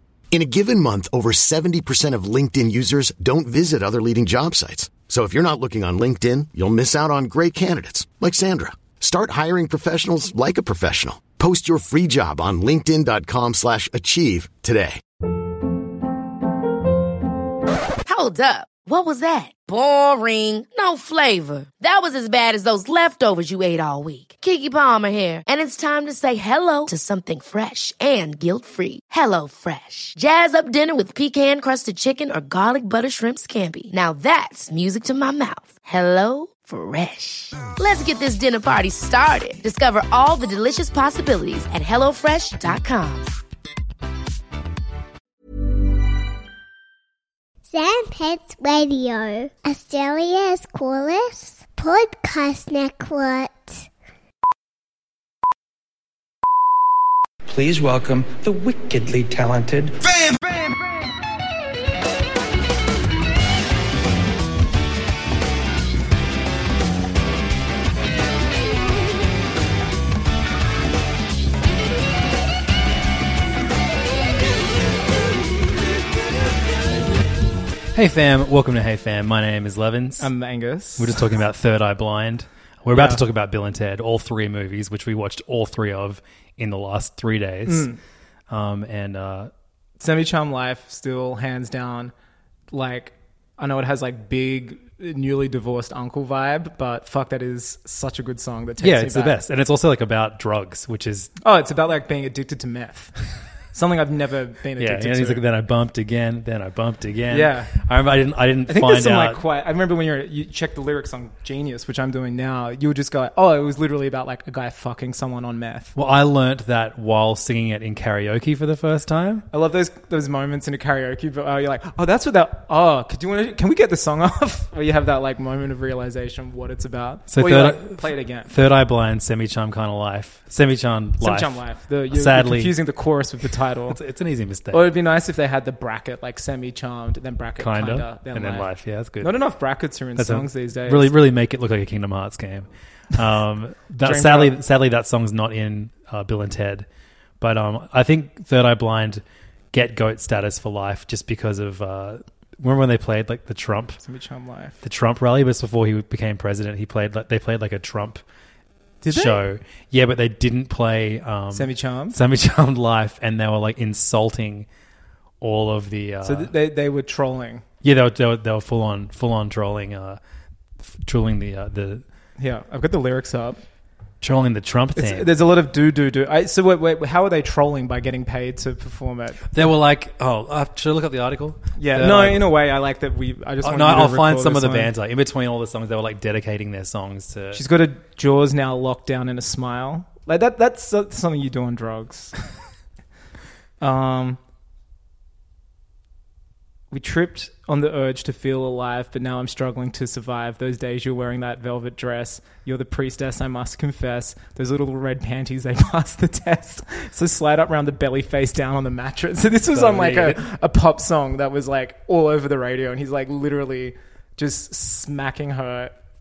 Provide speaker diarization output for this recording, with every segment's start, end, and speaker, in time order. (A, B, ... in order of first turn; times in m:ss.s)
0:00.3-0:15.0 A
0:18.0-0:43.3 B
0:47.7-0:53.9 C
0:57.5-1:00.0 D
1:17.9-1:20.3 E
1:20.2-1:21.1 F
1:21.0-1:27.9 E
1:22.9-1:23.2 F
1:27.6-1:28.0 F
1:28.5-1:29.5 E
1:30.0-1:32.1 F
1:32.7-1:39.3 F
1:38.8-1:41.3 E
1:41.4-1:43.1 F
1:43.7-1:45.4 F
1:44.8-1:49.4 E
1:47.3-1:47.7 F
1:48.7-1:55.9 F
1:55.9-1:59.4 E
1:59.5-2:08.5 F
2:07.3-2:12.8 E
2:11.2-2:14.0 F
2:13.9-2:14.8 E
2:14.7-2:18.7 F
2:17.6-2:19.3 E
2:19.2-2:21.1 F
2:20.2-2:26.9 E
2:24.0-2:24.6 F
2:27.4-2:34.0 E
2:34.0-2:34.8 F
2:34.8-2:38.2 E
2:39.0-2:39.4 F
2:39.1-2:44.7 E
2:41.5-2:42.2 F
2:45.4-2:46.5 E
2:46.2-2:47.6 F
2:47.8-2:50.2 E
2:50.8-2:52.0 E
2:52.4-2:53.6 F
2:54.2-2:55.3 E
2:55.0-2:59.5 F
2:59.5-3:02.4 E
3:01.8-3:04.9 F
3:03.6-3:07.6 E
3:07.5-3:12.3 F
3:13.8-3:14.4 F
3:16.9-3:35.9 F
3:29.7-3:30.4 E